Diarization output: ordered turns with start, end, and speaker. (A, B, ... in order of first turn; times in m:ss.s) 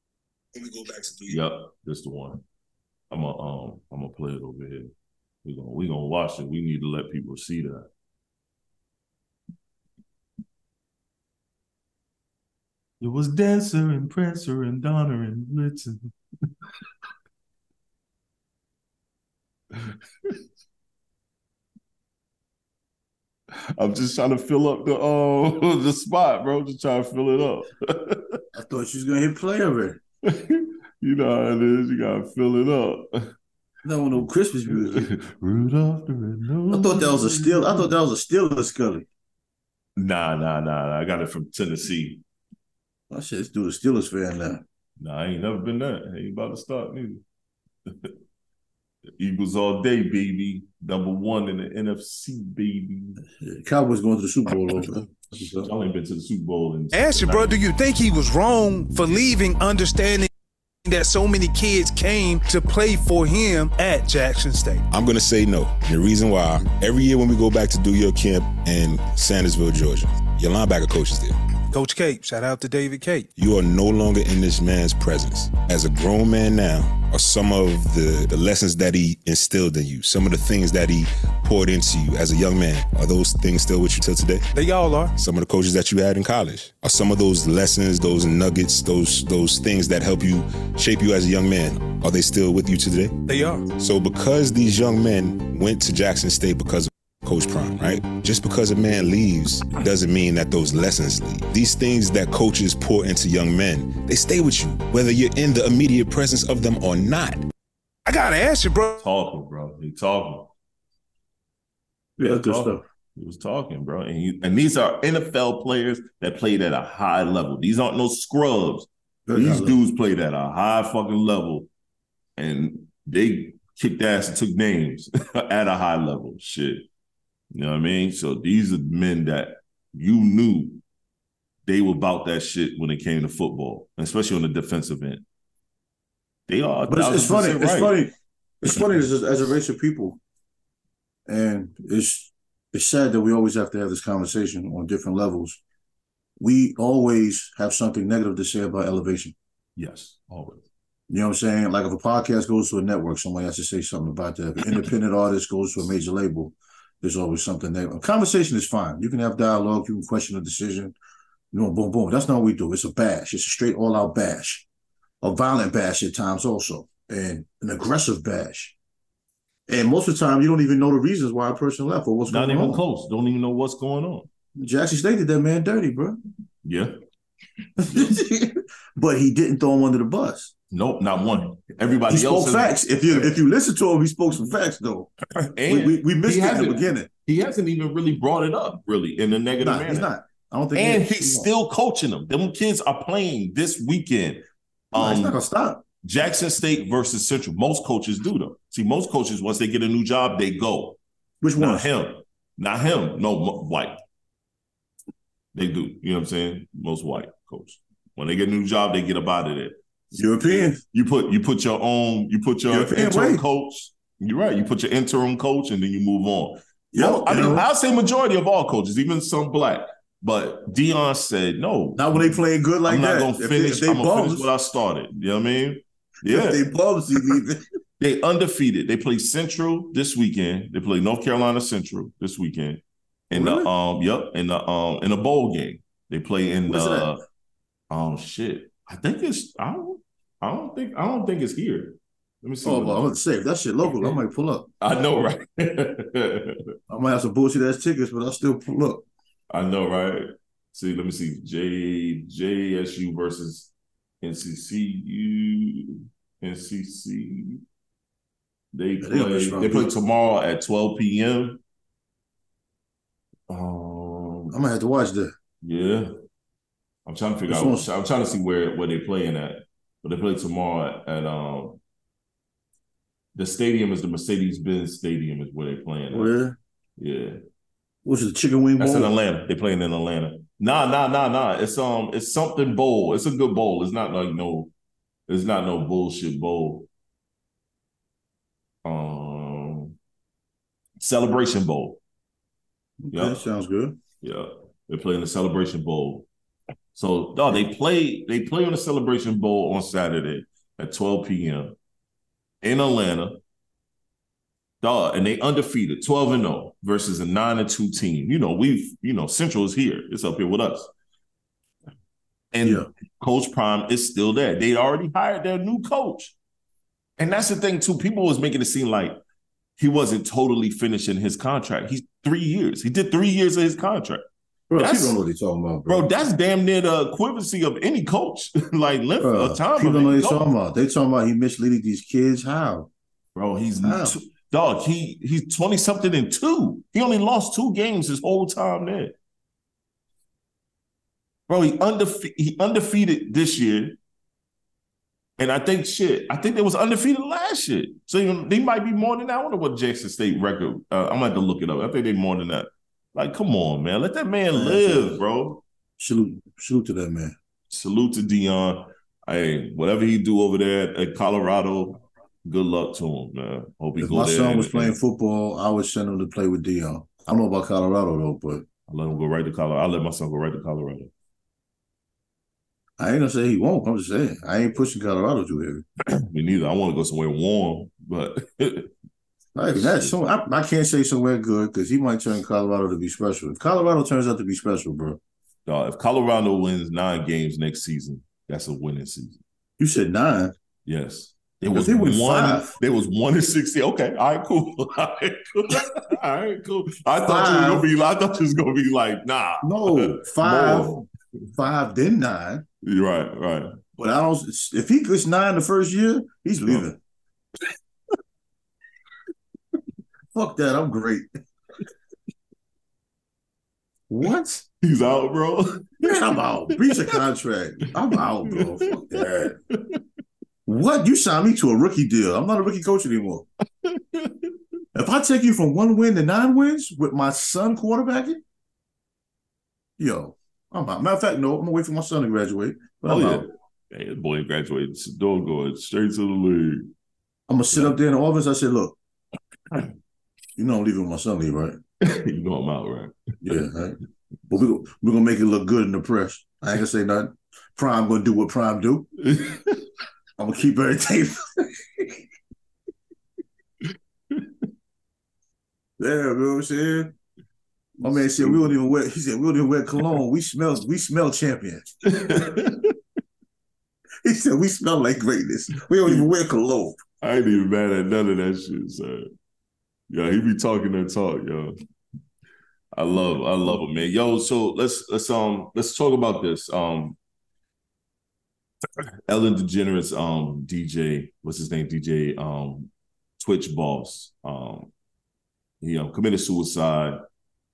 0:01.2-0:02.4 A
0:03.1-0:04.9 A
0:05.4-0:07.8 A
0:13.0-0:16.1 A
0:19.7-0:20.4 A
0:23.5-0:28.4 A
0:28.5-0:30.0 B
0:30.2-0:33.3 A
0:33.8-0:35.1 B
0:34.2-0:37.9 A
0:36.7-0:39.0 B
0:40.0-0:42.2 A
0:43.1-0:44.6 B
0:45.0-0:47.2 A
0:47.8-0:48.1 A
0:49.2-0:53.2 A
0:53.4-0:55.7 B
0:55.4-0:57.6 A
0:56.9-1:00.3 C
1:00.8-1:04.8 C
1:04.9-1:11.4 D
1:11.7-1:13.3 C
1:13.4-1:24.4 D
1:24.5-1:25.1 C
1:25.1-1:33.1 D
1:33.3-1:33.7 C
1:33.8-1:47.4 D
1:48.0-1:49.0 C
1:49.0-1:50.5 A
1:52.2-2:01.7 A
1:52.2-1:52.8 B
1:59.3-1:59.8 B
2:02.4-2:06.8 A
2:07.5-2:10.8 A
2:11.6-2:15.2 A
2:16.5-2:18.0 A
2:16.9-2:20.2 B
2:21.3-2:25.6 B
2:26.4-2:29.3 B
2:29.8-2:30.6 A
2:31.1-2:40.9 B
2:41.5-2:44.6 B
2:45.2-2:48.7 B
2:49.7-2:52.8 B
2:52.3-2:54.3 A
2:54.6-2:56.2 B
2:56.6-2:56.9 A
2:57.8-3:00.5 B
2:57.9-2:58.2 A
3:00.7-3:03.4 A
3:02.1-3:05.1 B
3:05.4-3:10.1 A
3:05.6-3:07.1 B
3:09.6-3:11.5 B
3:10.7-3:14.4 A
3:14.9-3:15.4 A
3:15.0-3:15.8 B
3:16.0-3:21.0 A
3:21.4-3:21.9 B
3:21.6-3:24.0 A
3:25.5-3:46.6 A
3:30.1-3:30.8 B
3:32.7-3:33.4 B
3:36.9-3:37.6 B
3:42.0-3:44.5 B
3:46.2-3:47.6 B
3:48.0-3:57.2 A
3:53.3-3:53.7 B
3:56.7-3:57.1 B
3:57.9-4:03.2 A
4:02.6-4:04.7 B
4:03.8-4:04.2 A
4:04.8-4:06.7 A
4:06.9-4:09.0 B
4:09.5-4:17.6 A
4:18.7-4:21.6 A
4:19.0-4:19.9 B
4:23.5-4:24.5 A
4:24.5-4:25.3 B
4:25.6-4:26.1 A
4:27.0-4:31.8 A
4:27.5-4:27.9 B
4:33.3-4:36.3 A
4:36.1-4:36.6 B
4:37.0-4:37.4 A
4:38.0-4:39.1 B
4:38.8-4:44.7 A
4:45.3-4:46.9 A
4:48.8-4:49.9 A
4:51.0-4:52.0 A
4:53.0-4:54.0 B
4:53.1-4:53.4 A
4:54.2-4:56.2 A
4:56.9-5:01.7 A
5:02.6-5:03.4 A
5:04.8-5:10.9 A
5:12.5-5:16.3 A
5:12.6-5:12.9 B
5:17.2-5:19.2 A
5:19.8-5:24.2 A
5:24.7-5:26.1 B
5:24.7-5:25.2 A
5:25.9-5:30.4 A
5:29.2-5:32.9 B
5:33.3-5:39.1 A
5:33.8-5:34.2 B
5:41.5-5:44.0 A
5:45.4-5:55.6 A
5:54.5-5:55.2 B
5:56.0-5:57.4 B
5:57.7-6:05.0 A
6:04.0-6:08.6 B
6:08.9-6:11.1 A
6:13.0-6:15.8 B
6:16.1-6:18.9 A
6:19.5-6:25.2 B
6:19.7-6:20.1 A
6:25.6-6:29.4 A
6:29.8-6:30.5 B
6:30.8-6:41.1 A
6:31.7-6:32.7 B
6:37.2-6:37.9 B
6:39.6-6:41.0 B
6:41.5-6:42.6 B
6:42.8-6:43.7 A
6:44.0-6:47.0 B
6:50.3-6:51.3 B
6:54.1-6:54.6 B
6:54.8-6:57.1 A
6:56.0-6:59.6 B
6:58.1-7:00.0 A
7:00.6-7:03.4 B
7:03.8-7:04.5 A
7:04.9-7:08.4 B
7:10.0-7:13.4 B
7:13.0-7:16.9 A
7:17.5-7:19.0 B
7:20.6-7:21.8 B
7:22.0-7:23.1 A
7:23.4-7:24.0 B
7:24.5-7:29.1 B
7:29.2-7:29.8 A
7:30.4-7:32.1 B
7:36.0-7:37.1 B
7:38.0-7:41.9 B
7:42.0-7:43.0 A
7:44.2-7:47.0 B
7:47.2-7:49.3 A
7:50.1-7:51.7 A
7:52.9-7:57.2 A
7:59.3-8:04.9 A
8:05.8-8:07.2 A